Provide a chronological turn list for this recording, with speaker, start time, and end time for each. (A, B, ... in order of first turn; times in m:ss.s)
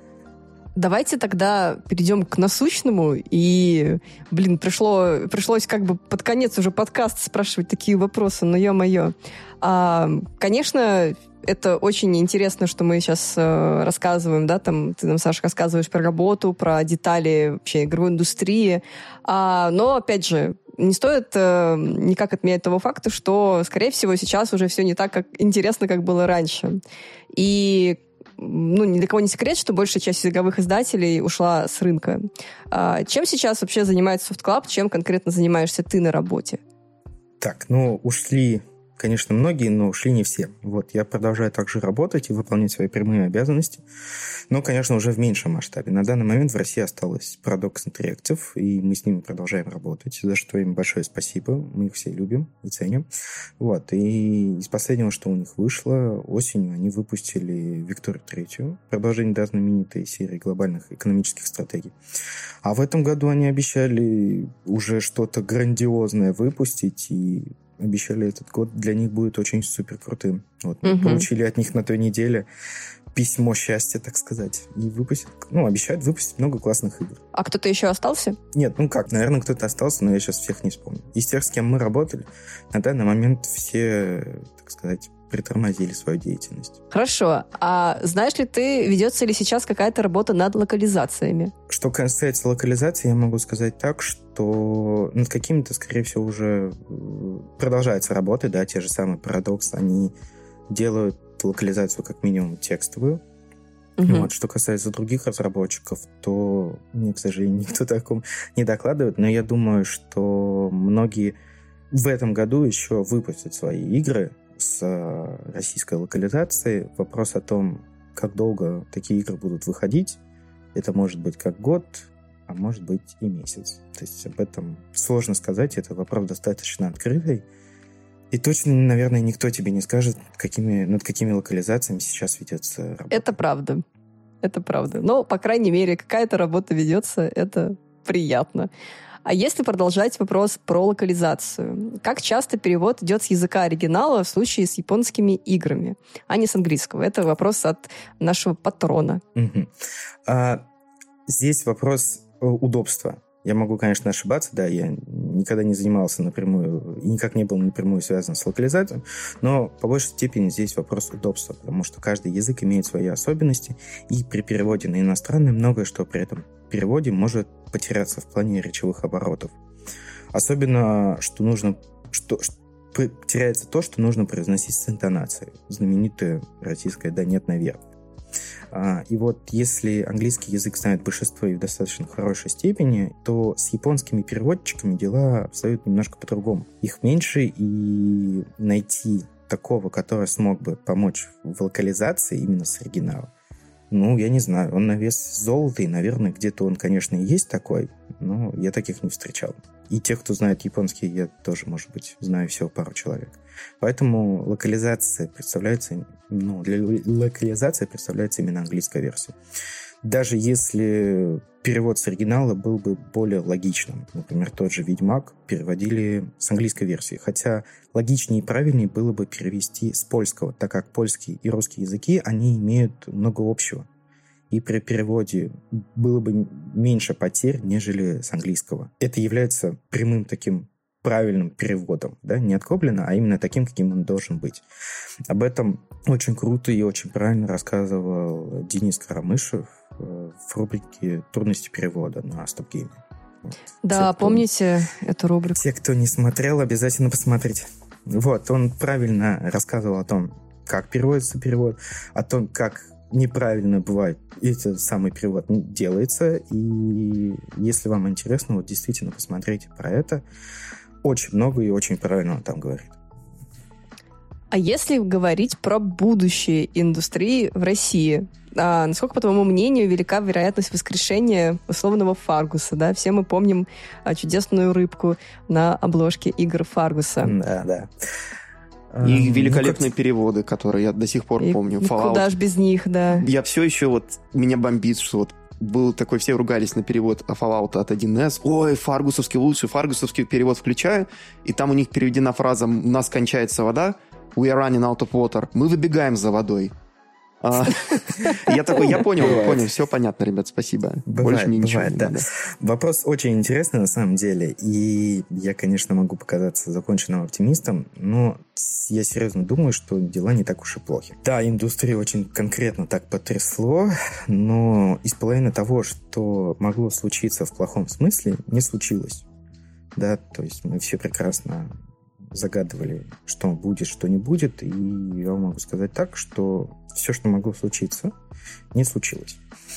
0:00.7-0:26.8 A
0:27.3-0:36.6 A
0:37.4-0:43.8 B
0:44.5-0:53.1 B
0:53.6-1:01.9 B
1:02.6-1:12.5 B
1:10.8-1:11.3 A
1:13.1-1:17.2 B
1:17.3-1:18.4 A
1:18.5-1:26.8 B
1:26.9-1:31.5 A
1:31.7-1:40.1 B
1:40.7-1:43.2 B
1:44.0-1:44.3 A
1:44.0-1:51.3 B
1:51.9-2:00.2 B
2:00.7-2:07.4 B
2:08.3-2:13.4 B
2:13.1-2:13.8 A
2:14.4-2:18.7 A
2:19.2-2:29.2 A
2:29.3-2:29.7 B
2:30.2-2:30.6 B
2:31.3-2:49.6 B
2:50.3-2:57.8 B
2:58.7-3:13.3 B
3:13.9-3:29.4 B
3:30.0-3:43.9 B
3:44.5-3:54.6 B
3:55.3-4:03.0 B
4:03.5-4:04.4 B
4:03.8-4:05.6 A
4:05.6-4:20.2 B
4:21.0-4:23.0 B
4:24.5-4:37.3 A
4:37.2-4:37.9 B
4:38.9-4:39.9 B
4:39.0-4:42.3 C
4:41.4-4:43.3 A
4:43.1-4:56.7 C
4:57.4-5:02.3 C
4:59.2-4:59.7 B
5:01.1-5:19.2 B
5:19.9-5:21.7 B
5:22.3-5:28.1 B
5:28.7-5:29.4 B